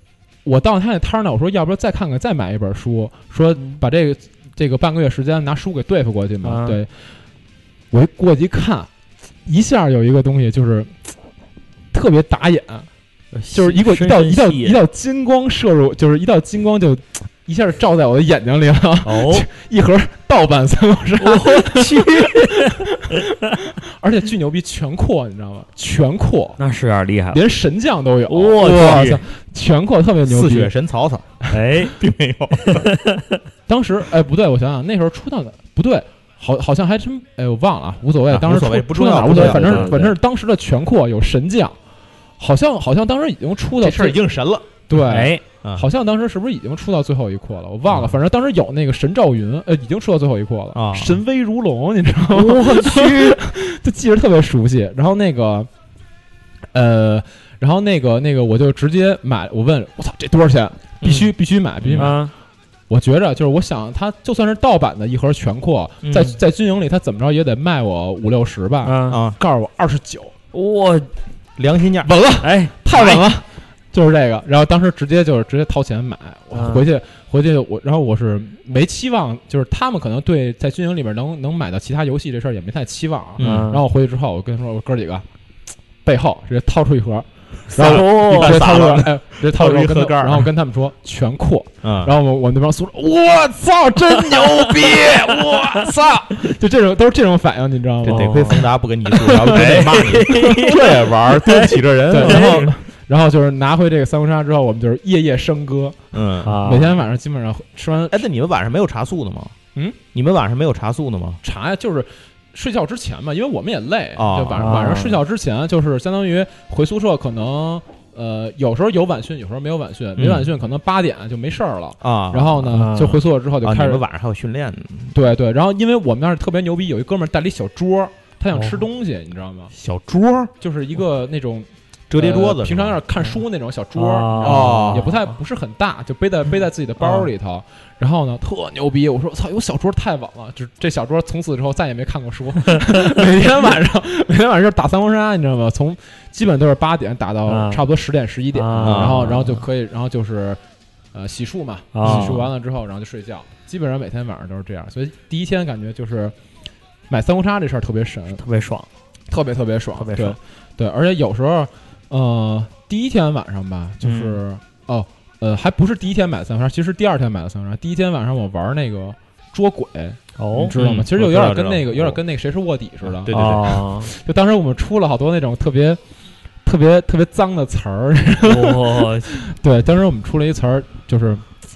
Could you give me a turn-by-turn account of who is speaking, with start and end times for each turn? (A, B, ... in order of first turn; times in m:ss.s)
0:00.4-0:06.9 A
0:06.4-0:06.8 B
0:07.9-0:08.9 A
0:09.4-0:11.1 A
0:11.9-0:12.9 A
0:13.3-0:14.8 B
0:13.5-0:26.6 A
0:19.0-0:19.4 B
0:21.2-0:23.2 B
0:26.6-0:27.4 B
0:27.3-0:30.7 A
0:28.3-0:29.2 B
0:30.2-0:32.9 C
0:31.5-0:32.0 B
0:32.6-0:33.4 B
0:33.7-0:41.8 A
0:38.3-0:40.1 C
0:39.2-0:40.1 B
0:42.4-0:44.2 A
0:43.8-0:44.7 C
0:44.9-0:55.7 A
0:45.0-0:45.4 B
0:50.7-0:51.2 C
0:52.3-0:53.4 B
0:56.7-1:02.2 A
1:01.0-1:01.3 B
1:01.8-1:02.2 C
1:02.0-1:02.3 B
1:02.9-1:10.3 A
1:06.0-1:06.4 C
1:08.8-1:09.2 B
1:09.1-1:09.4 C
1:10.5-1:11.1 B
1:11.6-1:12.1 C
1:12.0-1:25.2 A
1:12.4-1:13.2 B
1:16.5-1:16.8 B
1:23.4-1:23.7 C
1:23.4-1:23.8 B
1:26.0-1:38.6 A
1:27.7-1:30.5 C
1:27.7-1:28.7 B
1:31.8-1:32.1 C
1:35.1-1:35.5 B
1:38.0-1:42.7 C
1:38.1-1:38.7 B
1:39.1-1:40.8 A
1:39.3-1:42.7 B
1:42.1-1:46.0 A
1:46.1-1:46.6 C
1:46.4-1:47.0 B
1:46.6-1:48.2 A
1:48.1-1:49.5 C
1:50.1-1:51.4 C
1:51.4-2:04.0 A
1:54.2-1:54.9 C
1:54.6-1:55.2 B
2:00.2-2:00.5 C
2:02.0-2:02.7 C
2:02.7-2:03.2 B
2:03.6-2:05.1 C
2:05.1-2:09.7 A
2:08.5-2:08.8 B
2:09.7-2:10.5 C
2:10.6-2:30.6 A
2:12.1-2:13.0 C
2:13.9-2:15.2 B
2:14.4-2:15.1 C
2:17.0-2:17.3 B
2:22.7-2:23.1 B
2:27.5-2:27.8 B
2:28.5-2:29.6 B
2:28.8-2:29.4 C
2:31.1-2:36.3 A
2:31.9-2:32.5 B
2:32.0-2:32.4 C
2:37.1-2:38.4 A
2:38.4-2:38.9 B
2:39.3-2:53.4 A
2:40.0-2:40.4 B
2:44.0-2:44.4 B
2:50.4-2:50.7 B
2:50.7-2:52.2 C
2:53.0-2:53.8 C
2:53.3-2:54.1 B
2:54.0-2:56.0 A
2:56.6-3:01.4 A
2:58.4-2:59.3 B